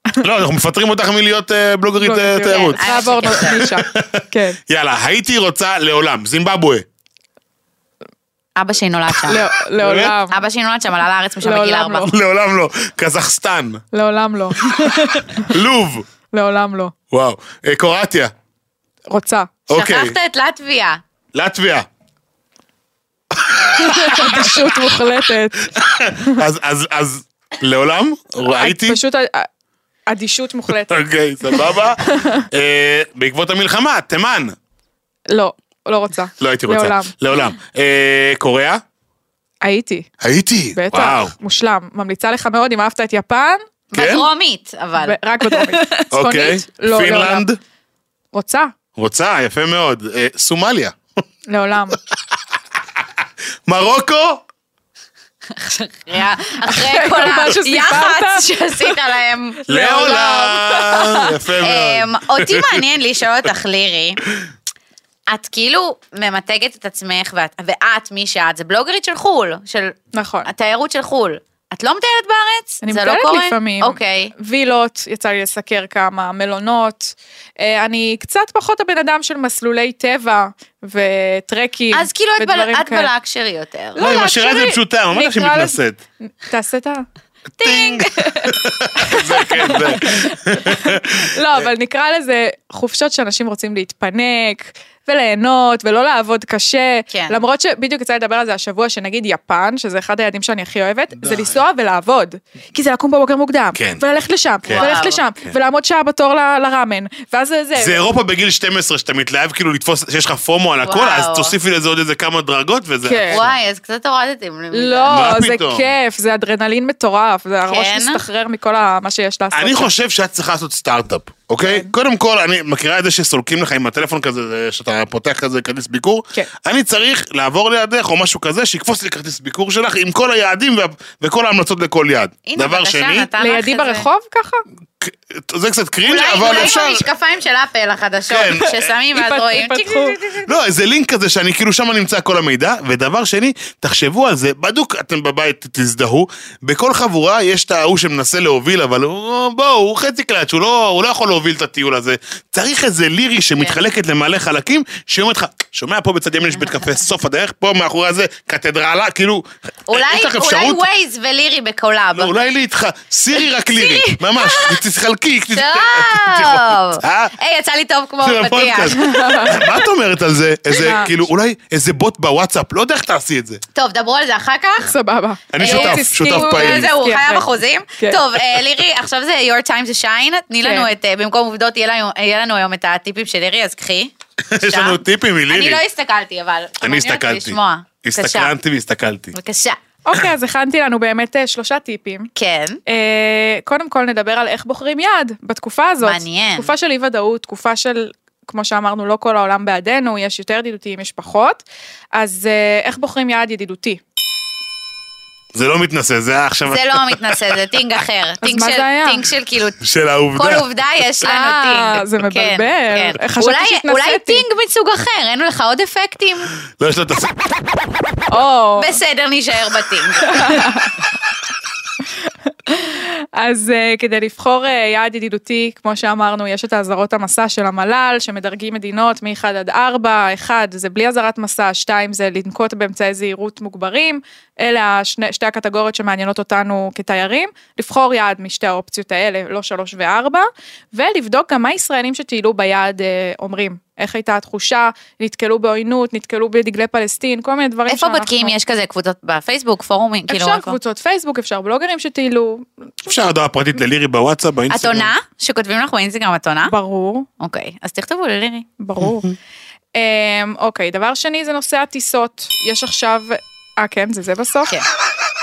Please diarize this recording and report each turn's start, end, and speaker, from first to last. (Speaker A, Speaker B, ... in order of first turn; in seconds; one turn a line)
Speaker A: 0.2-6.8
Speaker B: 2.0-4.6
Speaker C: 2.5-3.7
Speaker C: 8.6-9.4
Speaker A: 9.2-10.1
Speaker B: 9.3-10.4
Speaker C: 10.3-12.1
Speaker B: 11.4-12.1
Speaker A: 12.1-13.8
Speaker B: 13.9-15.5
Speaker A: 14.6-16.1
Speaker B: 16.3-16.9
Speaker A: 17.1-18.3
Speaker B: 19.1-19.5
Speaker A: 19.7-20.1
Speaker C: 19.7-21.0
Speaker A: 21.3-21.9
Speaker A: 23.4-24.5
Speaker B: 23.8-26.4
Speaker A: 25.7-29.0
Speaker B: 28.5-29.5
Speaker B: 30.1-32.5
Speaker A: 30.9-34.5
Speaker B: 35.3-37.1
Speaker A: 36.4-38.8
Speaker B: 39.6-40.1
Speaker A: 40.2-41.3
Speaker B: 40.7-43.6
Speaker C: 43.9-46.0
Speaker A: 43.9-44.2
Speaker B: 45.0-47.5
Speaker A: 46.1-47.6
Speaker B: 48.3-48.7
Speaker A: 49.0-51.0
Speaker B: 51.5-52.0
Speaker A: 53.7-54.4
Speaker C: 55.5-60.4
Speaker B: 56.6-59.0
Speaker B: 59.7-61.2
Speaker A: 59.7-62.8
Speaker C: 61.6-64.2
Speaker C: 65.3-74.3
Speaker B: 70.1-70.5
Speaker B: 72.8-83.1
Speaker C: 81.9-84.1
Speaker B: 83.9-87.0
Speaker A: 84.0-86.0
Speaker A: 87.6-91.7
Speaker C: 87.6-88.5
Speaker B: 89.0-108.0
Speaker C: 97.1-97.4
Speaker A: 101.2-101.6
Speaker A: 103.7-104.0
Speaker A: 104.6-105.5
Speaker C: 104.7-105.2
Speaker A: 107.8-113.6
Speaker C: 110.8-111.5
Speaker B: 113.0-113.4
Speaker C: 113.3-115.3
Speaker B: 114.7-119.9
Speaker A: 115.1-115.8
Speaker C: 117.7-118.2
Speaker A: 119.5-133.3
Speaker B: 121.6-121.9
Speaker C: 132.4-134.1
Speaker B: 133.4-134.6
Speaker A: 135.0-137.0
Speaker C: 136.0-140.5
Speaker A: 138.3-138.9
Speaker B: 139.1-140.4
Speaker A: 140.4-160.8
Speaker C: 156.5-156.9
Speaker C: 159.9-162.3
Speaker A: 162.1-167.3
Speaker C: 163.7-164.8
Speaker C: 165.5-169.5
Speaker A: 168.2-173.6
Speaker B: 169.0-169.7
Speaker B: 170.8-171.1
Speaker C: 173.7-174.9
Speaker B: 174.8-178.2
Speaker A: 175.5-176.9
Speaker C: 175.6-188.5
Speaker B: 180.6-180.9
Speaker A: 184.5-185.8
Speaker A: 186.8-189.3
Speaker C: 189.3-189.8
Speaker B: 190.0-192.3
Speaker C: 192.3-192.8
Speaker B: 192.9-201.6
Speaker C: 196.0-196.7
Speaker B: 202.1-204.0
Speaker A: 205.5-207.5
Speaker C: 206.7-209.8
Speaker B: 208.4-209.3
Speaker A: 209.8-210.7
Speaker C: 210.3-216.5
Speaker B: 211.2-214.4
Speaker A: 216.8-217.5
Speaker B: 218.3-219.0
Speaker C: 218.8-220.8
Speaker B: 220.2-221.0
Speaker B: 222.7-248.5
Speaker C: 247.9-250.8
Speaker B: 250.3-252.7
Speaker A: 253.0-255.1
Speaker C: 254.7-256.7
Speaker B: 256.6-257.3
Speaker C: 257.4-258.7
Speaker B: 258.8-259.3
Speaker B: 259.9-264.7